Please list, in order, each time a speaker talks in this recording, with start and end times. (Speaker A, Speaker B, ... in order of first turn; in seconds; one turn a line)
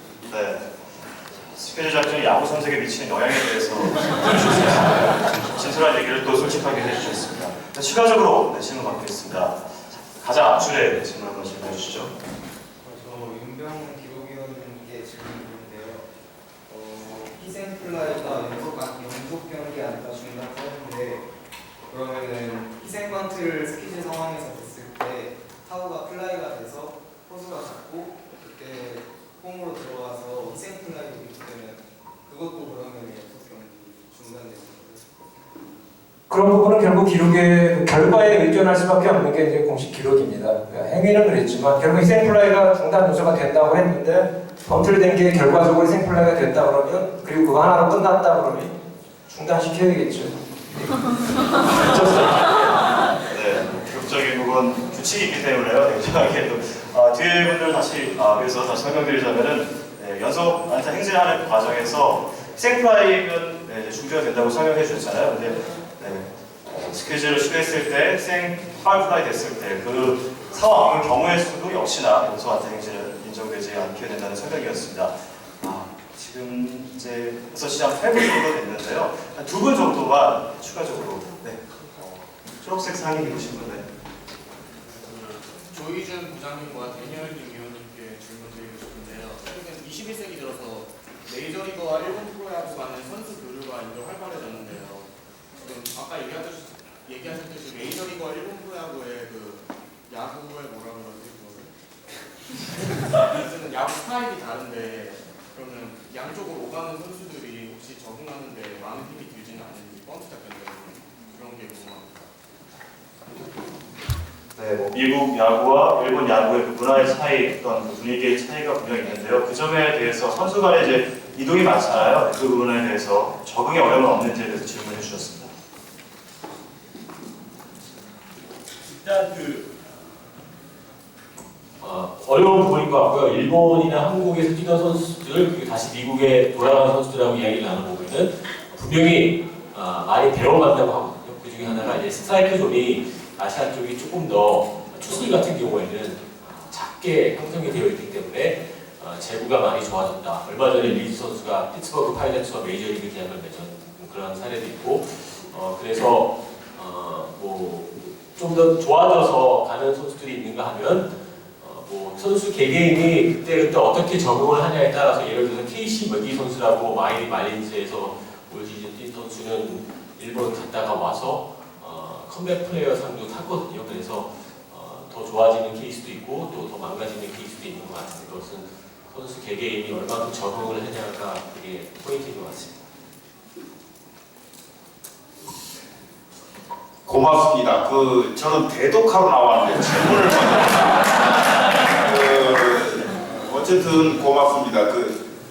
Speaker A: 0.3-0.8
Speaker A: 1.4-12.2
Speaker B: 12.8-16.1
Speaker B: 16.7-21.3
Speaker B: 21.9-35.7
Speaker C: 36.3-48.7
Speaker C: 49.3-50.4
Speaker C: 51.7-52.5
Speaker A: 53.3-83.9
Speaker D: 84.8-101.7
Speaker D: 103.0-112.2
Speaker A: 114.5-125.5
Speaker E: 129.0-129.7
Speaker E: 131.8-182.8
Speaker F: 187.1-195.3